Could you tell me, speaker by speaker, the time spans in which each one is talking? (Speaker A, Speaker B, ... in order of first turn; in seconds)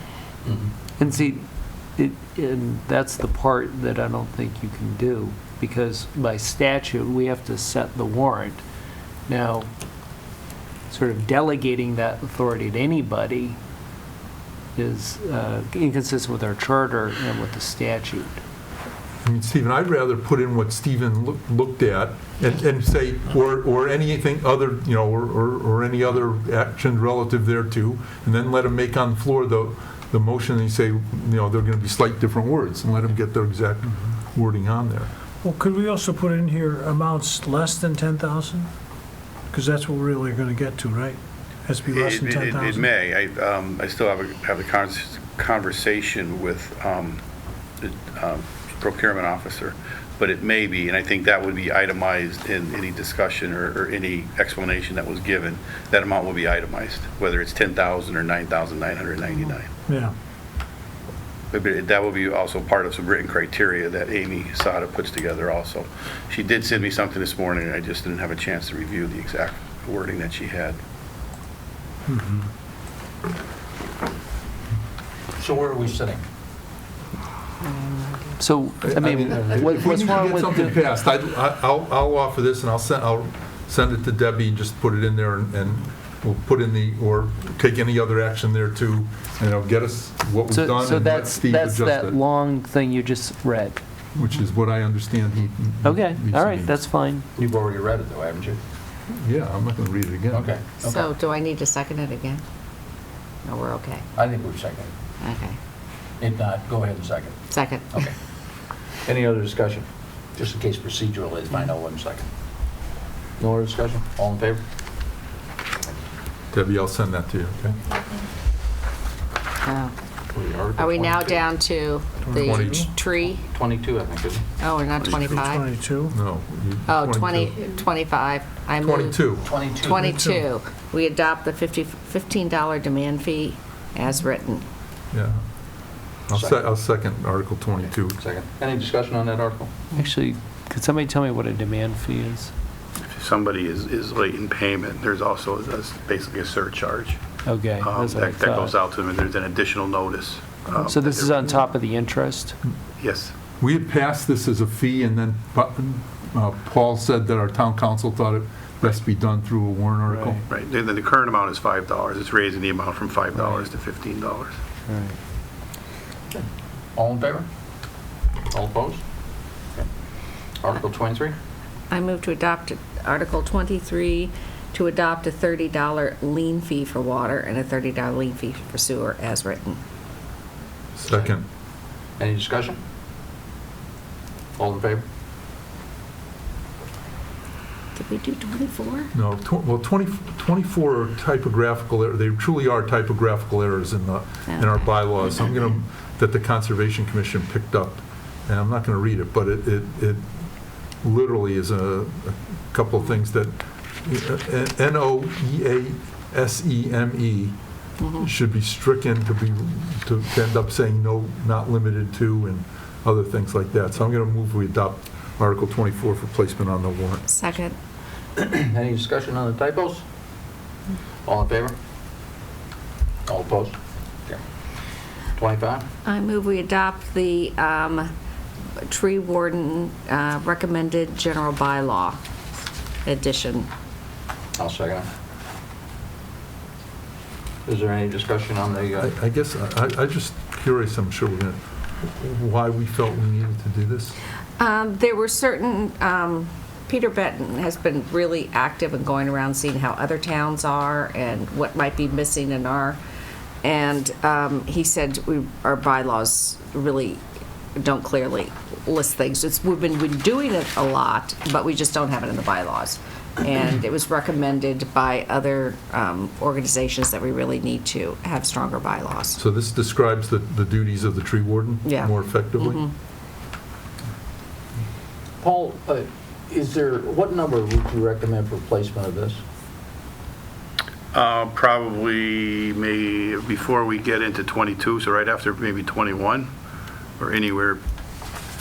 Speaker A: 0.5-0.7, 75.4-76.2, 97.4-98.6, 100.3-101.1, 104.2-104.9, 106.2-107.4, 109.1-112.3, 113.4-114.6, 120.3-121.5, 123.5-124.5, 129.4-130.1, 136.3-136.6, 138.2-139.7, 166.3-167.5, 168.5-169.0, 170.6-171.4, 182.2-182.8, 184.6-185.1, 218.4-220.0, 221.3-221.8, 223.3-223.8, 225.3-225.9, 234.6-235.1, 237.7-239.1, 275.4-279.4
Speaker B: 1.0-1.4, 2.0-8.6, 9.3-9.7, 10.9-13.6, 14.8-18.4, 78.4-80.8, 90.5-93.8, 95.8-97.3, 139.9-142.5, 147.4-148.8, 150.8-152.6, 160.1-160.4, 163.4-163.7, 164.9-165.2
Speaker C: 19.2-35.1, 78.8-92.2, 94.2-96.7, 99.1-100.5, 116.5-117.8, 122.3-122.9, 126.1-127.5, 128.8-129.5, 135.1-135.4, 136.3-138.2, 153.6-160.4, 181.0-181.4, 189.1-200.2, 201.0-207.6, 208.1-217.3, 239.0-244.2, 269.4-272.9
Speaker D: 35.4-38.7, 39.5-42.9, 59.9-60.1, 72.1-72.5, 125.5-126.1, 130.0-130.4
Speaker E: 41.9-47.2, 47.8-59.7, 61.5-70.8, 125.0-125.4, 143.0-147.2, 147.8-151.7, 153.0-153.3, 160.5-164.6, 281.1-286.5, 287.2-287.8
Speaker F: 77.6-78.4, 100.8-102.4, 103.5-104.0, 105.2-105.6, 107.5-108.1, 119.7-119.9, 120.8-123.4, 124.6-125.6, 126.9-129.2, 129.8-134.6, 171.9-179.8, 187.9-189.1, 194.5-194.8, 208.0-208.3, 217.3-217.8, 226.1-228.1, 228.8-232.2, 233.1-233.7, 244.6-253.0, 253.6-257.2, 257.8-269.4, 271.9-272.9